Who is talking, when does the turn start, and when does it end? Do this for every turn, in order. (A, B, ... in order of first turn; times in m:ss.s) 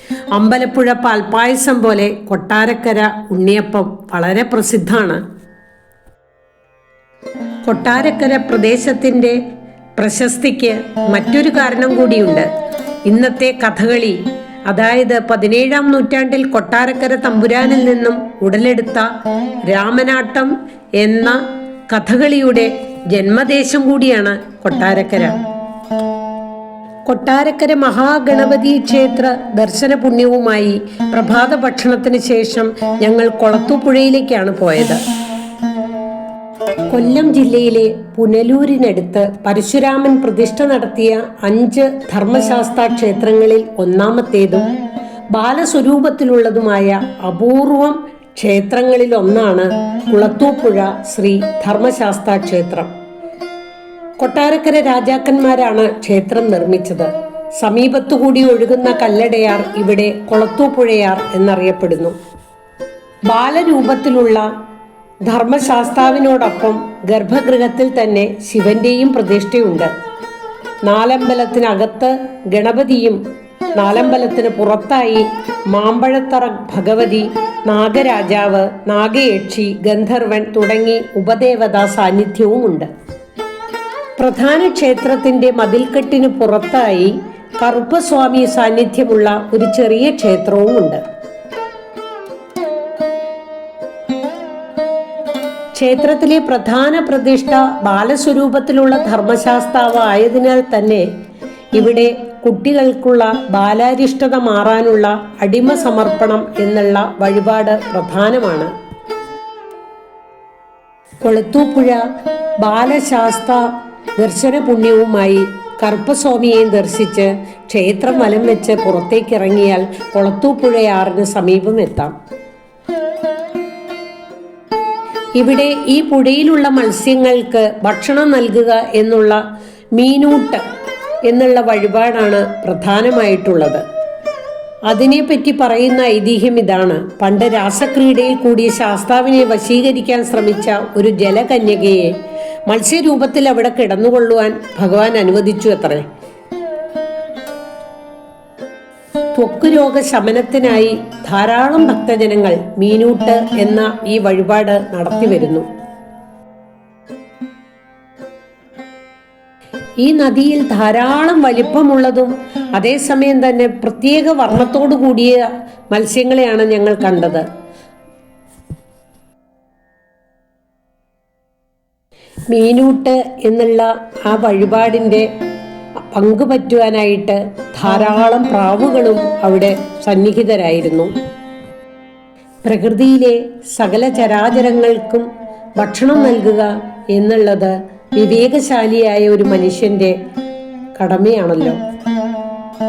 0:00.3-0:05.2 A
0:07.6-0:09.4 A
0:10.0-0:12.5 A
0:13.1-0:19.1 A
0:19.7-0:25.4 A
0:27.1-0:35.0 A
0:36.9-0:44.7 A
0:45.3-0:52.9 A
0:54.2-0:57.1 A
0:57.6-1:02.2 A
1:03.3-1:04.5 A
1:05.3-1:09.9 A
1:10.8-1:13.2 A
1:13.8-1:22.9 A
1:24.2-1:31.0 A
1:35.8-1:41.1 A
1:41.7-1:48.7 A
1:51.2-1:52.0 A
1:52.6-1:53.6 A
1:54.2-2:02.1 A
2:05.4-2:09.4 A
2:10.0-2:10.6 A
2:11.3-2:13.8 A
2:14.9-2:22.1 A
2:22.7-2:26.1 A
2:29.4-2:35.7 A
2:40.0-2:47.4 A
2:52.5-2:55.3 A
2:56.1-3:01.1 A
3:02.6-3:05.3 A
3:05.8-3:10.2 A
3:11.0-3:11.8 A